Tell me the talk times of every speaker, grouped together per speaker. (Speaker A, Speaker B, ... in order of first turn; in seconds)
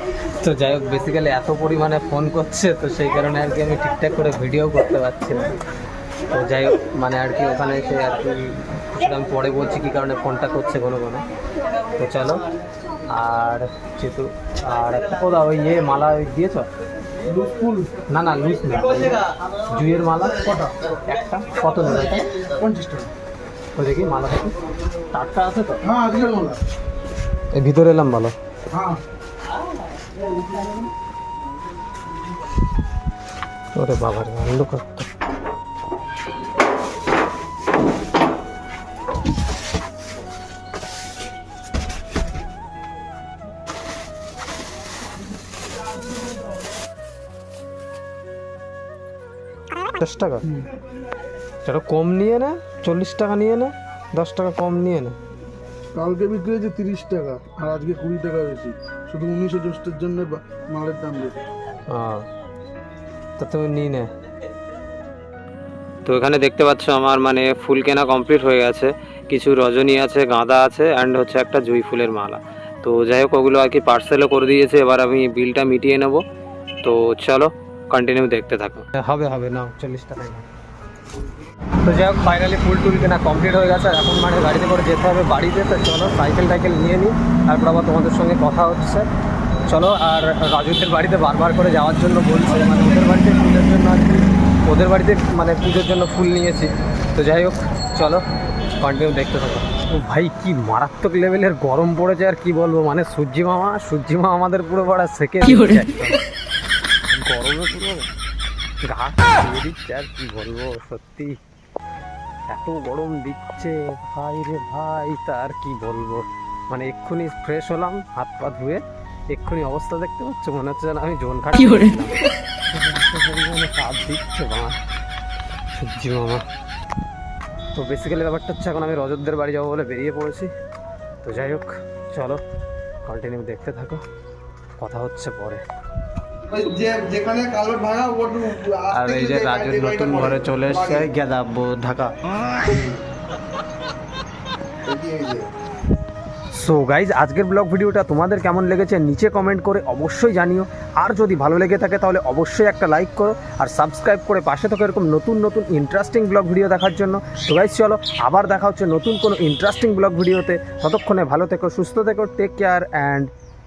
Speaker A: 0.4-5.6, 6.3-11.2, 12.0-12.4, 13.1-16.7, 18.1-20.4, 21.1-22.3, 23.8-24.6, 25.1-25.8, 27.5-28.3, 33.8-35.1, 49.8-50.5, 51.6-55.1, 61.9-62.3, 63.4-64.1, 78.9-80.5, 81.8-89.1, 89.7-98.2, 98.8-106.2, 107.1-108.1, 108.8-111.4, 112.5-122.2, 122.7-124.8, 125.7-126.4, 127.7-130.5, 131.2-132.4, 133.1-134.0, 134.8-135.6, 138.9-142.2, 146.6-163.3
Speaker B: 17.2-18.0, 20.4-20.7, 22.5-23.1, 25.8-26.6, 28.7-29.0, 55.9-61.4, 136.4-141.1, 144.8-145.5
Speaker C: 66.0-76.2, 76.8-78.9